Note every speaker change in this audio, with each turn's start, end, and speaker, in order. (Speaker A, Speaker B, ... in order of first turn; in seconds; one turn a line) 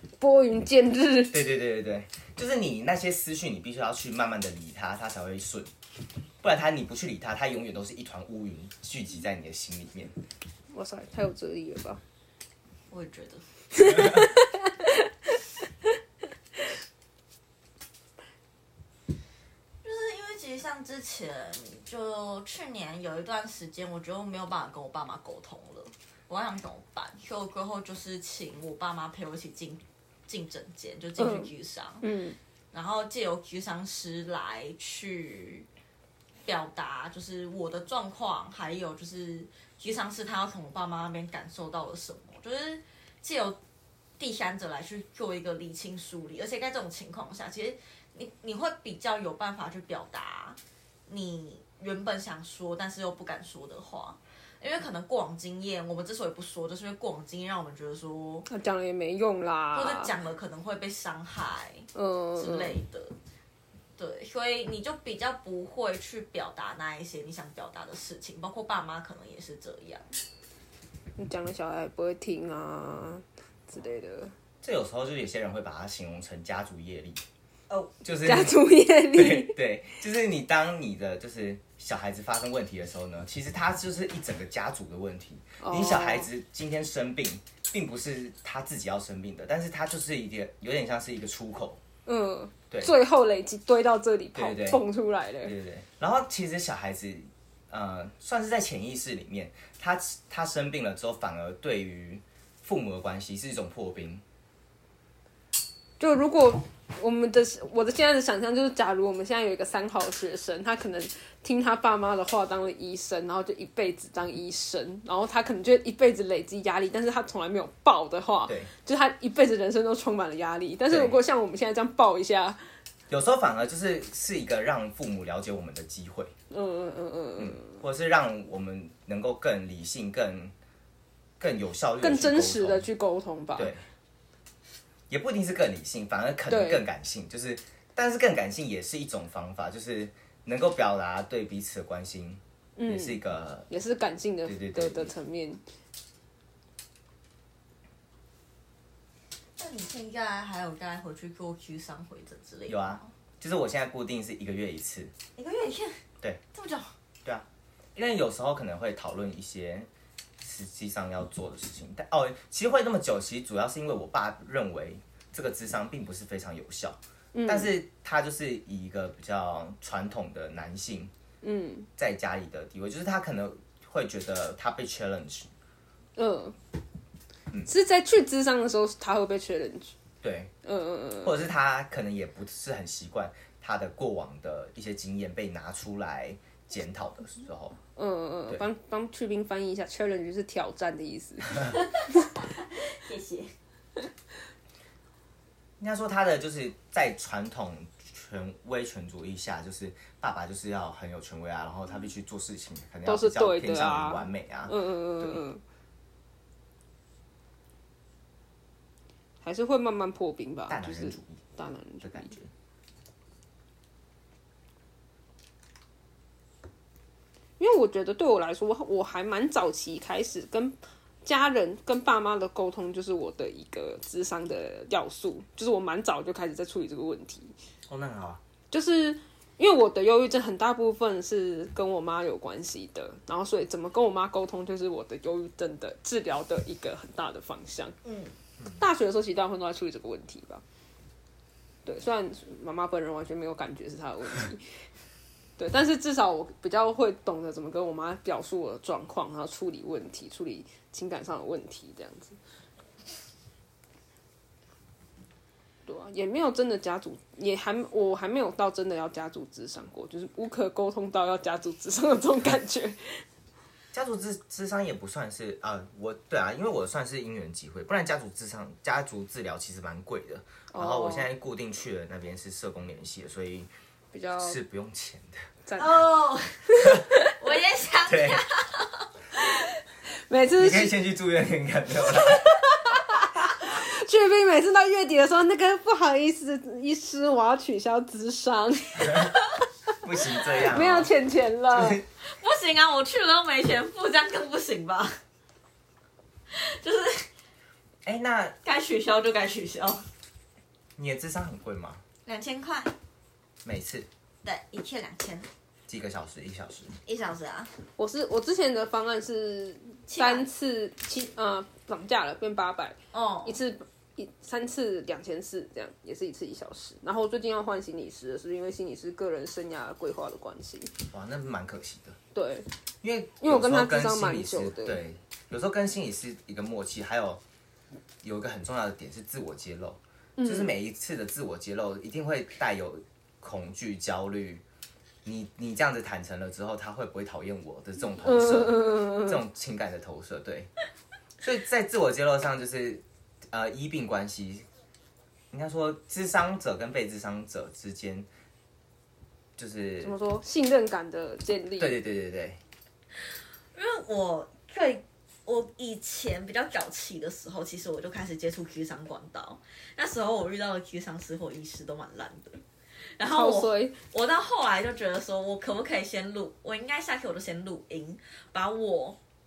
Speaker A: 0.2-1.4
Speaker B: 1.3-5.7
Speaker B: 6.4-10.1
Speaker A: 10.7-12.0
Speaker C: 12.9-13.4
Speaker A: 13.8-15.1
Speaker C: 19.8-32.0
Speaker A: 31.2-31.5
Speaker A: 32.0-32.4
Speaker C: 32.7-35.7
Speaker C: 36.5-43.6
Speaker C: 44.2-58.5
Speaker A: 58.5-60.1
Speaker C: 59.7-63.2
Speaker A: 62.0-62.8
Speaker C: 64.0-70.1
Speaker A: 71.2-74.3
Speaker B: 74.6-77.2
Speaker B: 78.0-91.8
Speaker A: 78.2-79.6
Speaker A: 85.6-86.3
Speaker A: 92.1-95.5
Speaker B: 94.3-94.8
Speaker B: 95.4-104.2
Speaker A: 106.0-122.6
Speaker B: 120.9-121.2
Speaker B: 123.1-126.3
Speaker A: 126.5-127.8
Speaker B: 127.4-130.5
Speaker B: 131.4-132.9
Speaker A: 132.0-133.7
Speaker B: 133.6-133.8
Speaker B: 135.1-143.7
Speaker A: 136.5-136.8
Speaker A: 142.8-145.6
Speaker B: 144.4-145.1
Speaker C: 149.6-153.1
Speaker B: 152.7-155.1
Speaker C: 155.4-156.0
Speaker C: 156.5-156.9
Speaker B: 157.2-159.9
Speaker B: 160.4-171.1
Speaker A: 167.3-167.7
Speaker A: 171.4-171.9
Speaker B: 172.0-175.5
Speaker A: 176.2-176.6
Speaker A: 177.7-179.9
Speaker B: 180.2-180.5
Speaker A: 180.6-181.4
Speaker B: 181.2-187.8
Speaker A: 188.0-192.1
Speaker C: 192.0-193.5
Speaker B: 195.8-205.4
Speaker A: 203.1-205.6
Speaker A: 209.4-212.3
Speaker B: 210.7-211.4
Speaker B: 212.0-212.5
Speaker A: 217.6-227.5
Speaker B: 227.9-228.4
Speaker A: 228.7-237.9
Speaker C: 238.1-238.3
Speaker A: 238.7-240.6
Speaker A: 241.8-244.6
Speaker A: 245.6-252.4
Speaker A: 255.9-263.2
Speaker B: 263.9-273.7
Speaker A: 270.7-271.3
Speaker A: 274.1-274.6
Speaker B: 274.4-275.5
Speaker C: 275.8-279.1
Speaker A: 276.8-277.3
Speaker B: 278.1-278.4
Speaker A: 280.3-280.9
Speaker B: 280.6-282.5
Speaker A: 282.1-289.3
Speaker B: 289.0-289.3
Speaker B: 290.0-291.1
Speaker A: 290.7-292.0
Speaker B: 291.7-292.0
Speaker C: 292.3-295.2
Speaker C: 296.5-297.3
Speaker B: 298.1-298.6
Speaker C: 298.6-300.0
Speaker B: 301.0-302.0
Speaker C: 302.3-302.9
Speaker B: 303.6-304.1
Speaker C: 304.4-305.5
Speaker B: 305.9-307.0
Speaker C: 307.1-307.7
Speaker A: 308.0-320.9
Speaker C: 310.1-310.5
Speaker C: 313.1-313.6
Speaker B: 321.1-322.2
Speaker A: 322.3-322.7
Speaker B: 323.0-327.4
Speaker A: 323.4-325.0
Speaker B: 328.2-334.6
Speaker A: 330.4-330.7
Speaker B: 335.2-340.7
Speaker A: 338.2-339.4
Speaker B: 341.4-344.7
Speaker B: 345.5-348.3
Speaker B: 349.6-350.1
Speaker A: 350.0-352.0
Speaker B: 351.8-352.6
Speaker C: 353.8-362.6
Speaker C: 363.2-369.2
Speaker A: 363.3-364.0